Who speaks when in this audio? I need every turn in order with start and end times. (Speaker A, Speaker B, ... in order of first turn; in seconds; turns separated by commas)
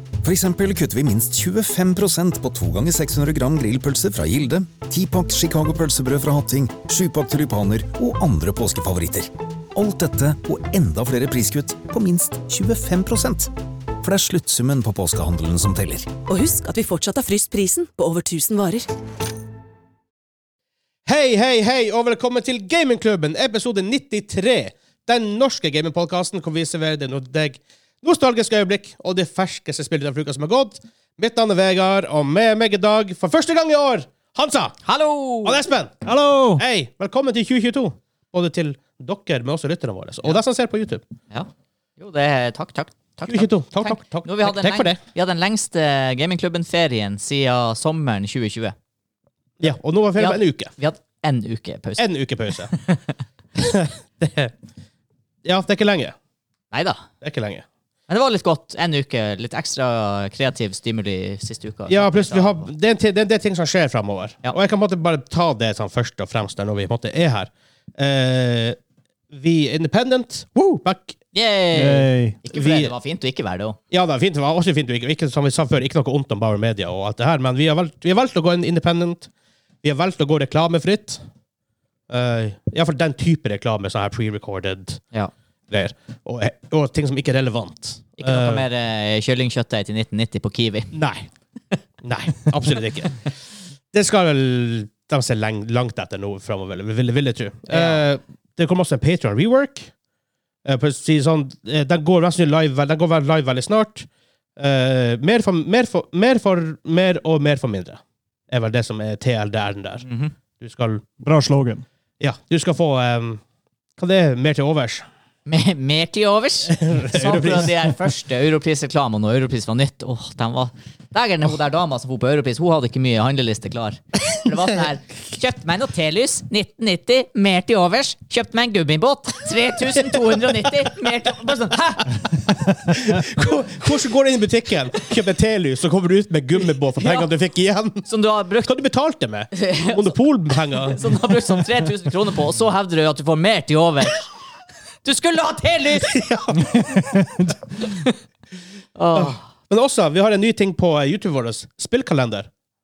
Speaker A: 0.2-16.1, Speaker B: 16.3-18.9, Speaker C: 21.1-34.8, Speaker D: 34.9-35.6, Speaker C: 35.4-36.1, Speaker E: 36.0-36.6, Speaker C: 36.6-41.0, Speaker D: 41.3-48.8, Speaker C: 43.2-45.0, Speaker C: 49.6-50.7, Speaker D: 50.2-52.0, Speaker C: 52.0-52.8, Speaker C: 53.6-54.5, Speaker C: 55.5-56.1, Speaker D: 56.7-57.1, Speaker C: 57.2-57.6, Speaker D: 58.1-62.7, Speaker C: 61.9-68.8, Speaker C: 69.3-71.2, Speaker D: 71.3-73.8, Speaker E: 71.7-72.4, Speaker C: 72.5-72.9, Speaker C: 73.9-79.3, Speaker C: 79.8-81.2, Speaker C: 82.1-85.0, Speaker C: 85.7-88.7, Speaker D: 88.2-90.9, Speaker C: 90.9-91.3, Speaker C: 92.0-93.2, Speaker C: 93.9-99.9, Speaker D: 97.7-98.0, Speaker C: 100.7-110.1, Speaker D: 110.0-110.3, Speaker C: 110.6-111.0, Speaker E: 111.2-111.8, Speaker C: 112.2-113.4, Speaker C: 114.0-115.0, Speaker D: 115.5-132.2, Speaker C: 116.7-118.0, Speaker C: 132.8-138.1, Speaker D: 136.9-137.3, Speaker D: 138.1-138.7, Speaker C: 138.6-141.0, Speaker D: 139.5-140.2, Speaker D: 140.7-144.3, Speaker D: 145.0-146.3, Speaker C: 146.0-146.7, Speaker E: 146.8-147.5, Speaker D: 147.8-148.1, Speaker D: 148.9-149.4, Speaker C: 149.2-152.5